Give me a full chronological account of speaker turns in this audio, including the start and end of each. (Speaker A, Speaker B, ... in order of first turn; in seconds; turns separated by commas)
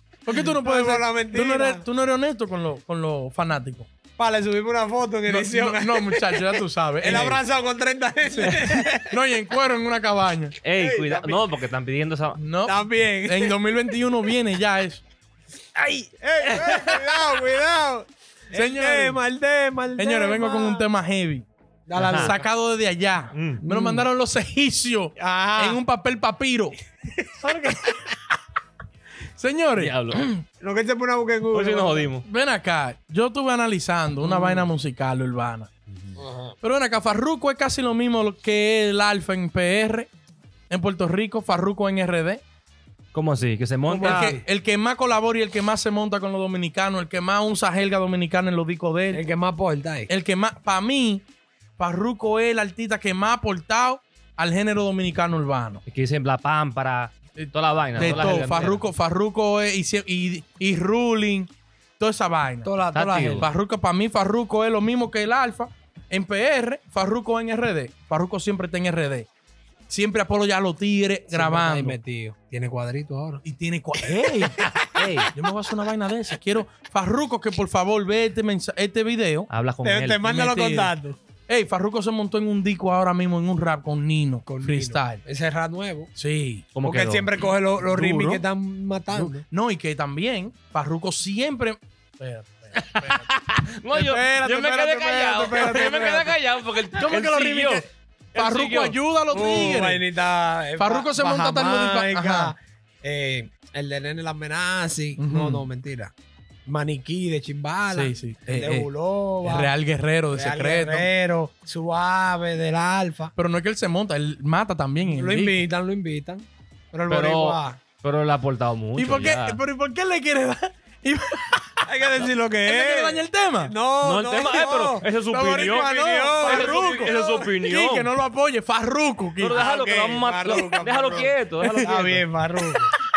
Speaker A: 0.3-3.9, Speaker B: 0.4-1.8, Speaker B: 4.2-9.1, Speaker A: 5.3-7.4, Speaker C: 7.1-7.4, Speaker A: 8.4-10.6, Speaker C: 10.6-12.4, Speaker B: 10.7-11.4, Speaker A: 12.4-15.0, Speaker B: 12.7-13.6, Speaker B: 15.8-20.9, Speaker C: 16.6-17.0, Speaker A: 18.5-19.2, Speaker A: 20.0-26.8, Speaker B: 21.9-22.4, Speaker C: 22.0-22.4, Speaker C: 23.3-23.6, Speaker B: 23.6-24.1, Speaker B: 25.2-25.8, Speaker A: 27.4-28.0, Speaker A: 29.4-30.4, Speaker C: 29.8-30.3, Speaker B: 30.6-32.1, Speaker C: 31.5-32.3, Speaker A: 32.2-35.7, Speaker B: 34.2-34.7, Speaker B: 36.2-36.5, Speaker A: 36.6-40.1, Speaker A: 40.7-42.4, Speaker C: 43.1-44.3, Speaker B: 43.9-44.5, Speaker A: 44.0-49.2, Speaker B: 49.1-50.1, Speaker A: 50.1-51.3, Speaker A: 51.8-55.8, Speaker C: 55.9-58.8, Speaker A: 57.4-62.7, Speaker B: 62.6-63.5, Speaker C: 62.9-63.5, Speaker A: 63.4-69.3, Speaker A: 69.9-72.0, Speaker B: 71.3-73.4, Speaker A: 73.4-74.6, Speaker B: 74.2-75.1, Speaker C: 75.0-75.3, Speaker A: 75.3-79.5, Speaker C: 79.5-80.2, Speaker B: 79.8-81.2, Speaker A: 80.2-80.9, Speaker A: 81.5-85.2, Speaker B: 84.5-86.1, Speaker A: 86.2-86.7, Speaker C: 86.8-87.3, Speaker B: 86.8-89.5, Speaker A: 87.8-88.4, Speaker A: 89.1-93.3, Speaker C: 92.8-99.0, Speaker A: 93.9-96.4, Speaker A: 97.0-100.0, Speaker B: 99.3-106.1, Speaker A: 100.8-102.5, Speaker A: 105.2-105.7, Speaker B: 106.7-109.7, Speaker A: 107.9-108.9, Speaker A: 109.4-111.1, Speaker B: 110.3-113.3, Speaker A: 113.4-115.7, Speaker B: 115.0-117.8, Speaker C: 117.1-119.6, Speaker A: 119.0-123.7, Speaker B: 121.9-125.1, Speaker C: 124.0-125.9, Speaker A: 125.3-129.7, Speaker B: 125.7-127.2, Speaker C: 126.4-128.1, Speaker C: 129.4-132.2, Speaker B: 129.5-132.9, Speaker A: 131.6-133.0